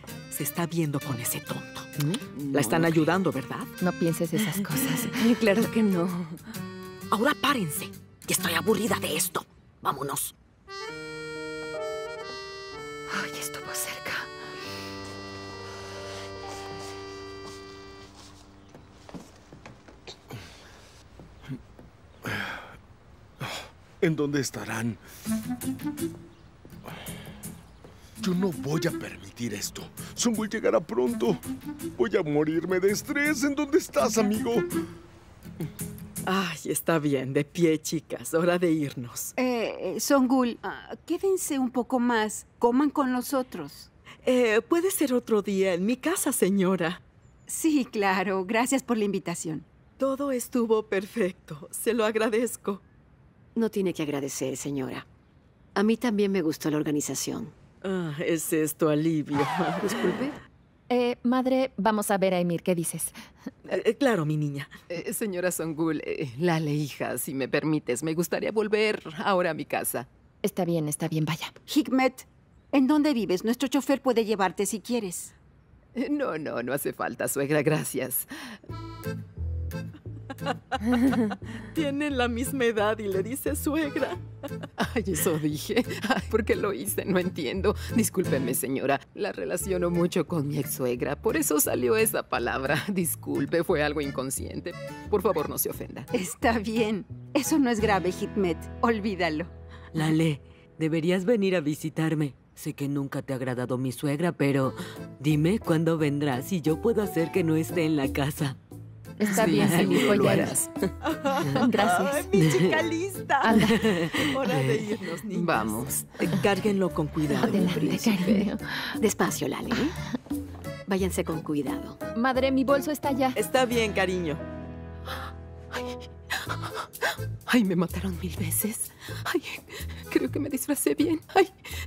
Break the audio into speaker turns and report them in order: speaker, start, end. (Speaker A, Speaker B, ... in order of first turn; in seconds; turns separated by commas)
Speaker A: 0.3-1.9, Speaker B: 2.0-3.1, Speaker A: 2.5-3.7, Speaker C: 3.8-5.2, Speaker B: 5.1-6.4, Speaker D: 7.1-7.5, Speaker D: 8.3-10.3, Speaker E: 22.2-22.7, Speaker E: 23.4-25.0, Speaker E: 28.2-31.4, Speaker E: 32.0-34.7, Speaker A: 36.3-39.3, Speaker F: 39.4-43.9, Speaker A: 44.2-47.0, Speaker F: 47.5-49.6, Speaker A: 50.0-52.8, Speaker D: 53.6-55.0, Speaker D: 55.8-57.5, Speaker A: 57.8-60.2, Speaker C: 60.9-63.1, Speaker A: 63.7-64.7, Speaker G: 64.9-70.1, Speaker C: 70.4-71.5, Speaker F: 71.7-75.3, Speaker G: 76.0-78.3, Speaker A: 80.8-84.2, Speaker G: 84.8-96.1, Speaker F: 96.1-99.5, Speaker H: 99.9-108.6, Speaker C: 109.2-110.5, Speaker G: 109.3-110.7, Speaker H: 109.5-110.2, Speaker A: 111.0-117.7, Speaker C: 111.6-112.4, Speaker C: 113.5-113.7, Speaker G: 115.3-116.3, Speaker G: 117.3-118.5, Speaker C: 117.4-118.6, Speaker D: 119.0-120.0, Speaker D: 120.9-122.0, Speaker C: 122.2-123.4, Speaker A: 123.4-124.4, Speaker G: 125.7-126.9, Speaker G: 127.5-131.7